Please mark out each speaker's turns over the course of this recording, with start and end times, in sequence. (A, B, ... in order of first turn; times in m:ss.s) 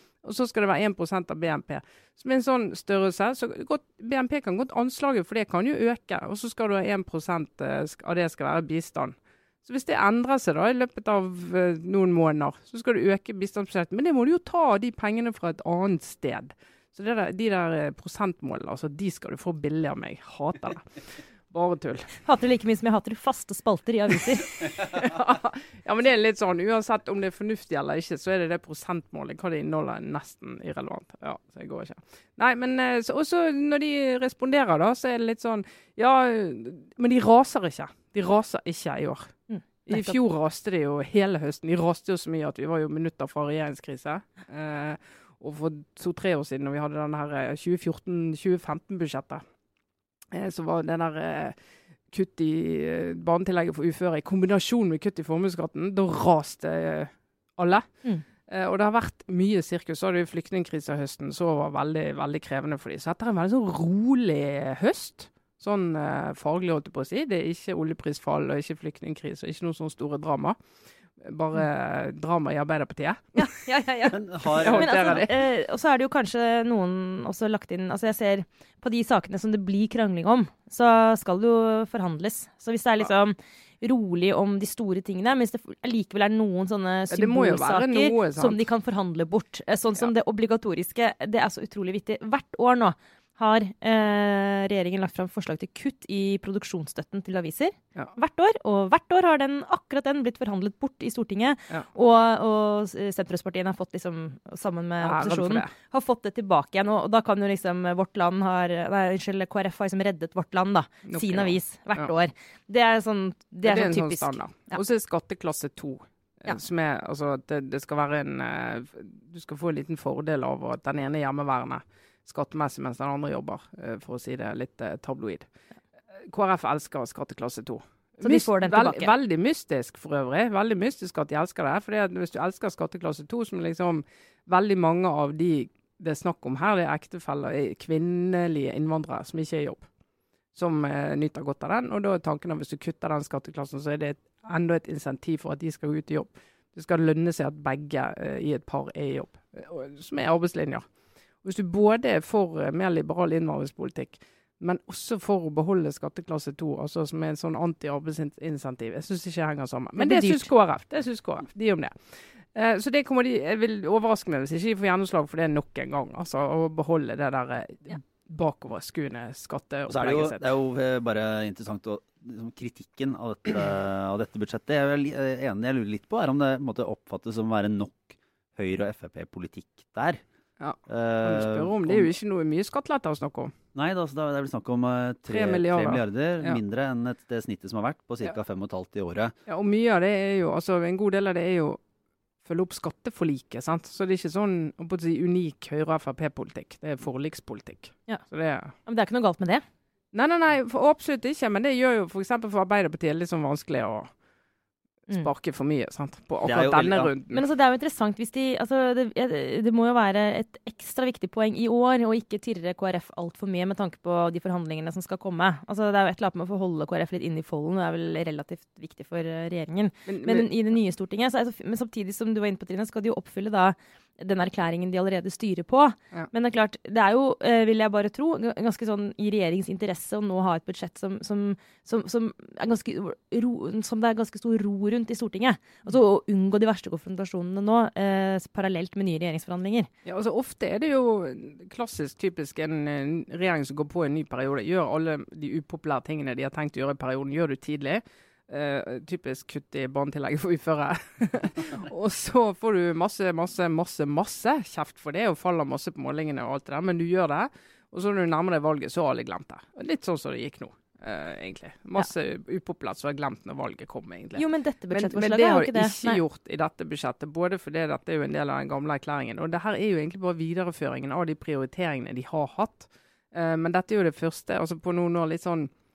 0:00.2-0:22.2 A
0:22.2-0:24.7 B
0:24.7-0:49.4 A
0:39.5-0:40.2 B
0:50.3-0:51.6 A
0:52.1-1:10.6 A
1:11.2-1:13.5 A
1:13.4-1:54.8 B
1:14.1-1:15.3 C
1:14.6-1:15.4 A
1:27.1-1:28.6 A
1:45.0-1:45.7 A
1:51.1-1:52.1 A
1:53.6-2:05.5 A
2:06.1-2:19.9 A
2:08.2-2:09.1 B
2:20.5-2:30.9 A
2:31.4-2:50.4 A
2:40.0-2:40.5 B
2:49.9-3:00.2 C
3:00.6-3:03.5 A
3:00.9-3:02.1 C
3:03.8-3:09.4 C
3:05.3-3:06.6 A
3:09.5-3:11.8 A
3:12.4-3:18.7 A
3:18.9-3:19.6 B
3:20.1-3:24.1 A
3:25.1-3:27.4 A
3:26.4-3:27.1 C
3:27.3-3:59.9 B
3:40.1-3:40.5 A
4:00.0-4:35.7 A
4:24.4-4:26.2 B